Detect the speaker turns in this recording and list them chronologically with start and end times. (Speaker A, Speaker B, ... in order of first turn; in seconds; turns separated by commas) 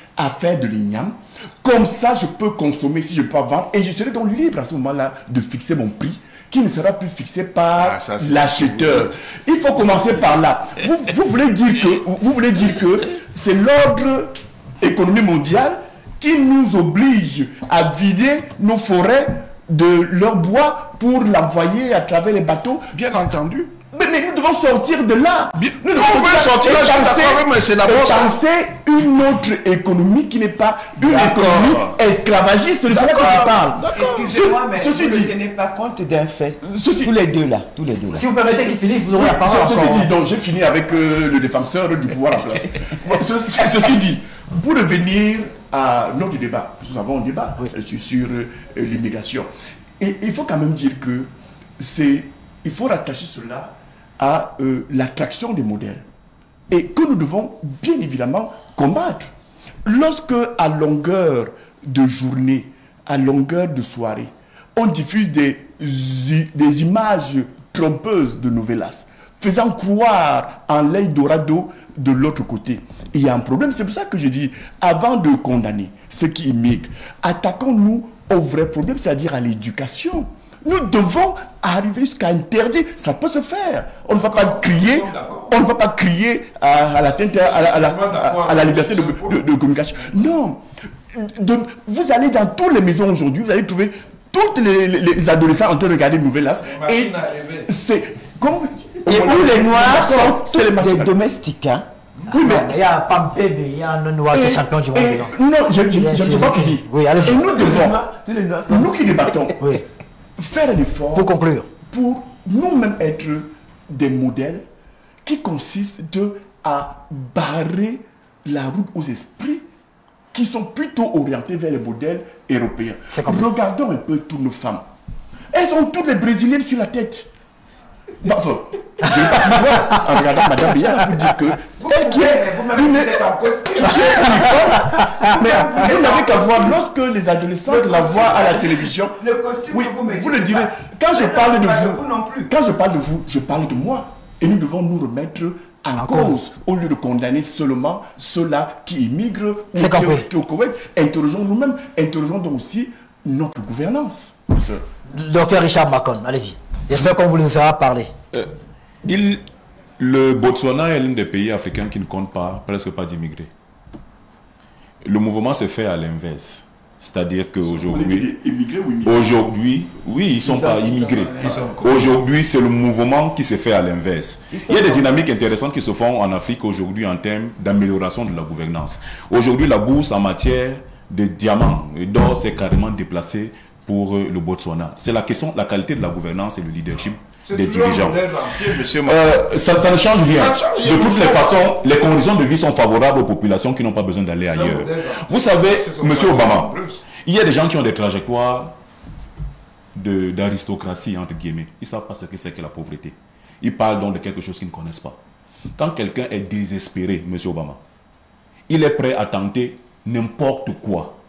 Speaker A: 0.2-23.3, Speaker B: 7.8-9.1, Speaker B: 22.9-23.7, Speaker A: 23.9-35.3, Speaker B: 25.6-28.4, Speaker B: 31.0-31.9, Speaker C: 31.1-31.6, Speaker B: 32.9-34.4, Speaker D: 33.9-38.3, Speaker A: 36.6-37.1, Speaker C: 38.1-40.1, Speaker A: 39.1-56.0, Speaker A: 56.7-59.3, Speaker A: 59.8-101.1, Speaker B: 84.2-85.5, Speaker B: 87.4-89.4, Speaker B: 96.6-97.7, Speaker D: 99.0-101.9, Speaker C: 102.3-105.3, Speaker A: 102.3-102.8, Speaker A: 104.3-108.0, Speaker C: 105.9-107.5, Speaker D: 107.3-109.5, Speaker A: 108.7-109.6, Speaker A: 110.4-114.6, Speaker C: 111.2-111.7, Speaker A: 115.2-119.6, Speaker A: 120.3-124.8, Speaker C: 123.1-123.5, Speaker A: 125.5-127.3, Speaker A: 128.2-154.8, Speaker C: 129.7-130.0, Speaker D: 131.8-136.8, Speaker C: 134.8-135.2, Speaker D: 137.7-142.5, Speaker C: 146.0-146.4, Speaker C: 149.8-150.3, Speaker C: 155.1-158.1, Speaker E: 159.0-159.4, Speaker E: 160.0-163.5, Speaker E: 165.0-168.3, Speaker A: 167.7-169.4, Speaker E: 169.0-198.7, Speaker B: 170.4-172.2, Speaker A: 170.7-171.5, Speaker D: 174.5-175.2, Speaker B: 187.4-189.4, Speaker B: 190.2-191.6, Speaker B: 194.5-197.0, Speaker E: 199.9-205.2, Speaker E: 205.8-207.8, Speaker E: 208.7-211.1